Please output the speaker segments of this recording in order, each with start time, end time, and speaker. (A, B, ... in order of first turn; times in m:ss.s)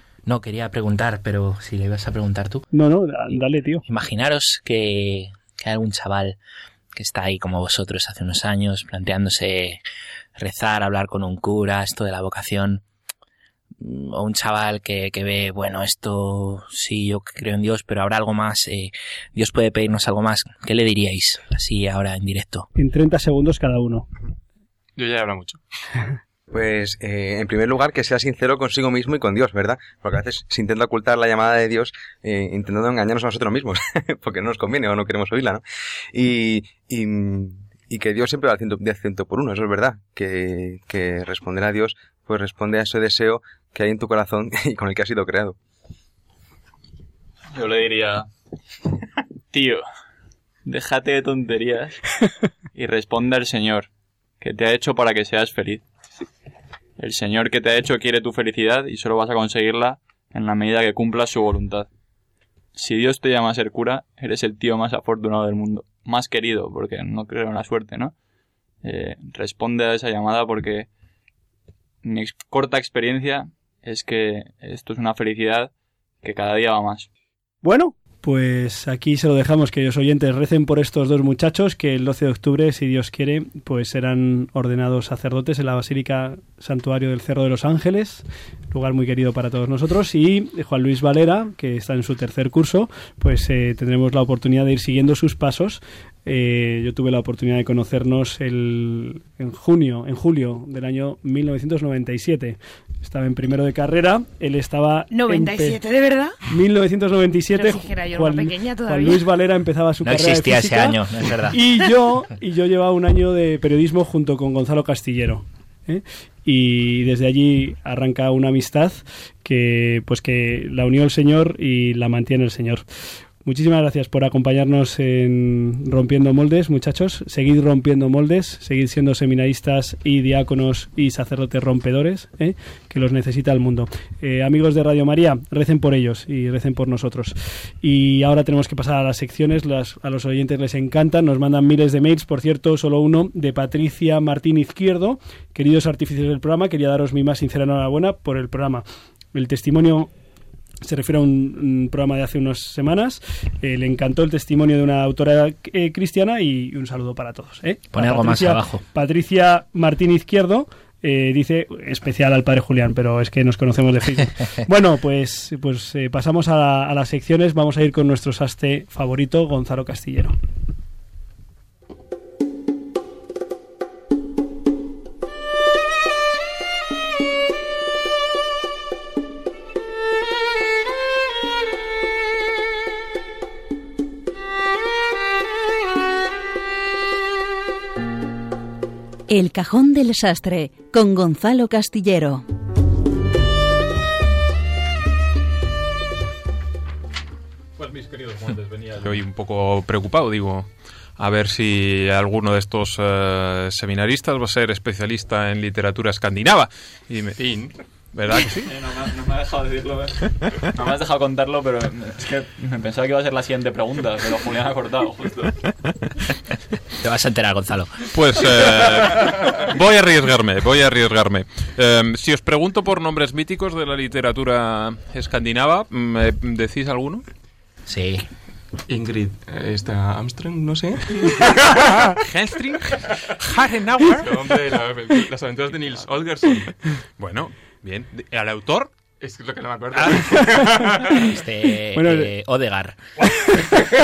0:00.3-0:02.6 A
0:02.7-0:03.8 B
0:03.8-0:06.4 A
0:06.9-0:09.8 A
0:10.4-0:12.8 A
0:13.8-0:22.7 A
0:22.8-0:24.1 B
0:25.0-0:25.6 C
0:26.5-0:35.6 D
0:36.1-0:45.6 D
0:47.5-0:48.3 E
0:49.5-0:49.8 E
0:50.6-0:52.0 E
0:52.8-0:53.9 E
0:54.4-0:55.8 E
0:57.0-1:01.9 E
1:02.8-1:08.1 E
1:08.8-1:10.9 E
1:12.0-1:15.7 E
1:16.2-1:17.1 E
1:17.6-1:45.8 B
1:45.1-1:46.4 F
1:46.5-2:02.8 B
1:47.5-1:49.2 F
1:50.0-1:51.6 A
2:03.4-2:30.1 B
2:30.8-2:50.4 B
2:37.9-2:38.8 A
3:09.3-3:12.4 G
3:17.8-3:27.4 H
3:27.4-3:27.7 C
3:28.1-3:28.7 H
3:28.5-3:30.2 E
3:30.8-3:35.6 E
3:37.0-3:38.1 A
3:38.1-3:47.2 H
3:47.9-3:48.3 A
3:48.9-3:52.1 C
3:52.1-3:54.5 H
3:54.2-3:56.9 C
3:57.2-3:58.9 H
3:59.2-4:01.2 C
4:00.0-4:00.6 H
4:01.2-4:03.0 A
4:02.0-4:02.3 B